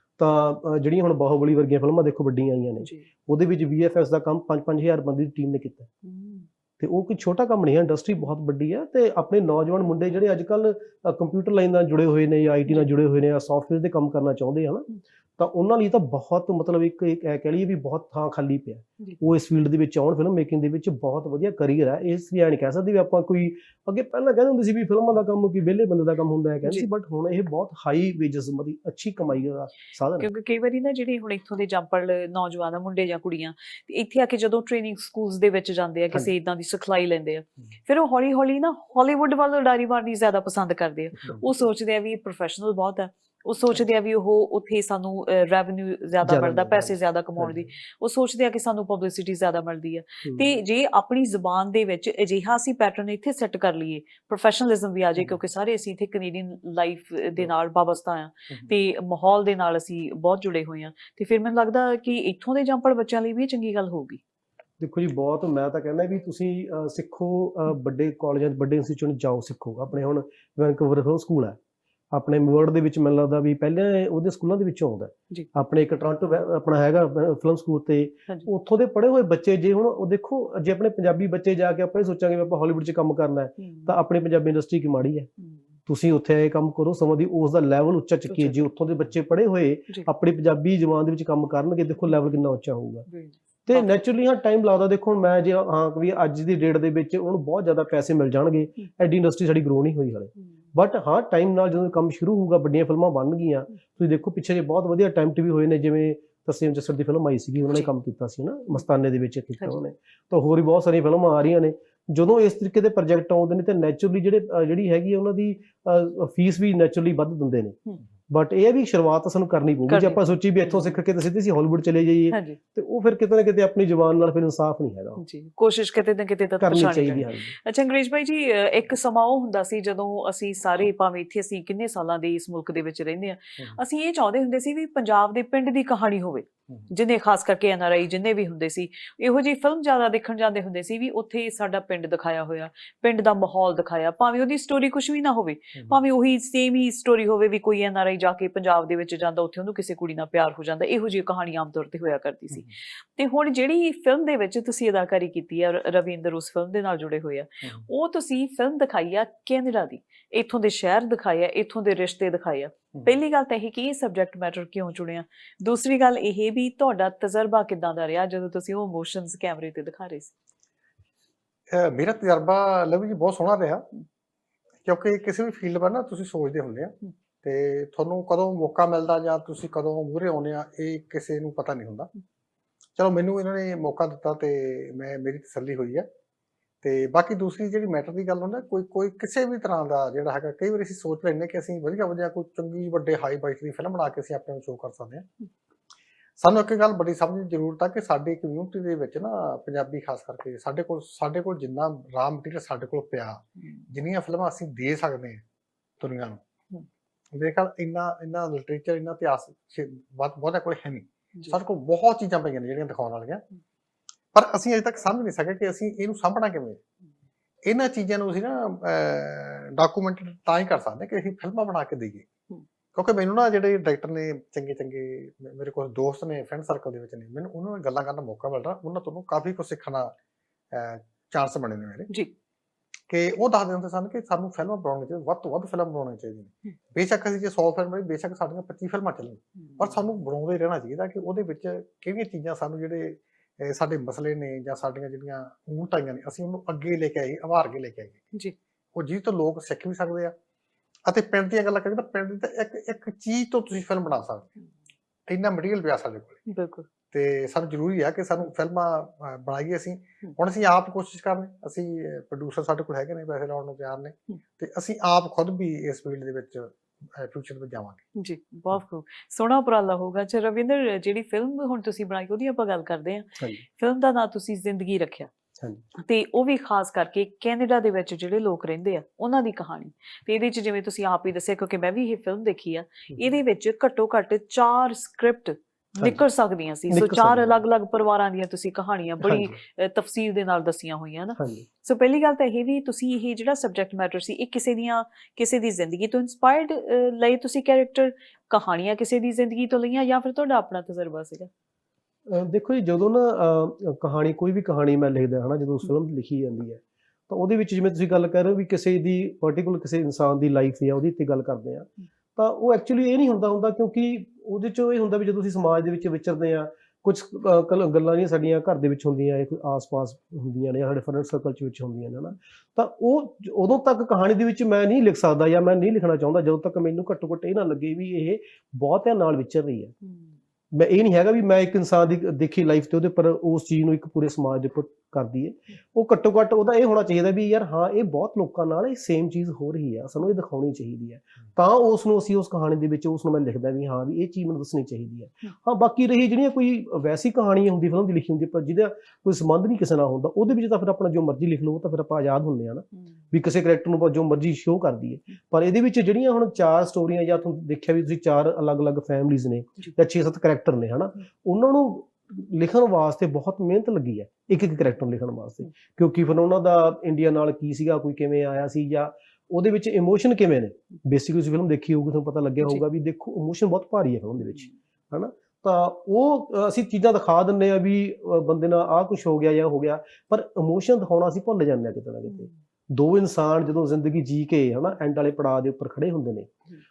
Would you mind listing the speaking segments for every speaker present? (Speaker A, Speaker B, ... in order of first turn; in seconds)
Speaker A: 0.2-5.9, 6.8-14.9, 15.4-30.3, 46.2-47.7, 50.2-50.5, 64.8-71.6, 72.1-85.3, 85.9-93.1, 93.7-125.2, 126.6-127.5, 275.6-275.8, 286.0-286.2, 286.9-287.6, 289.2-289.6, 291.4-291.6, 302.3-329.9, 330.7-386.5
Speaker B: 2.8-3.1, 6.0-6.5, 30.2-64.2, 83.6-84.0, 88.3-88.6, 93.1-94.0, 119.9-121.0, 122.3-122.6, 125.2-170.3, 203.6-203.8, 239.6-239.9, 256.5-256.9, 268.1-275.3, 275.9-301.5
Speaker C: 171.7-173.9, 174.8-182.1, 183.0-186.1, 186.8-195.3, 196.4-205.4, 206.0-206.4, 207.3-213.4, 214.3-216.8, 217.7-222.3, 222.9-230.1, 230.7-232.1, 233.1-248.2, 248.9-250.3, 251.1-254.5, 255.3-256.4, 257.1-268.0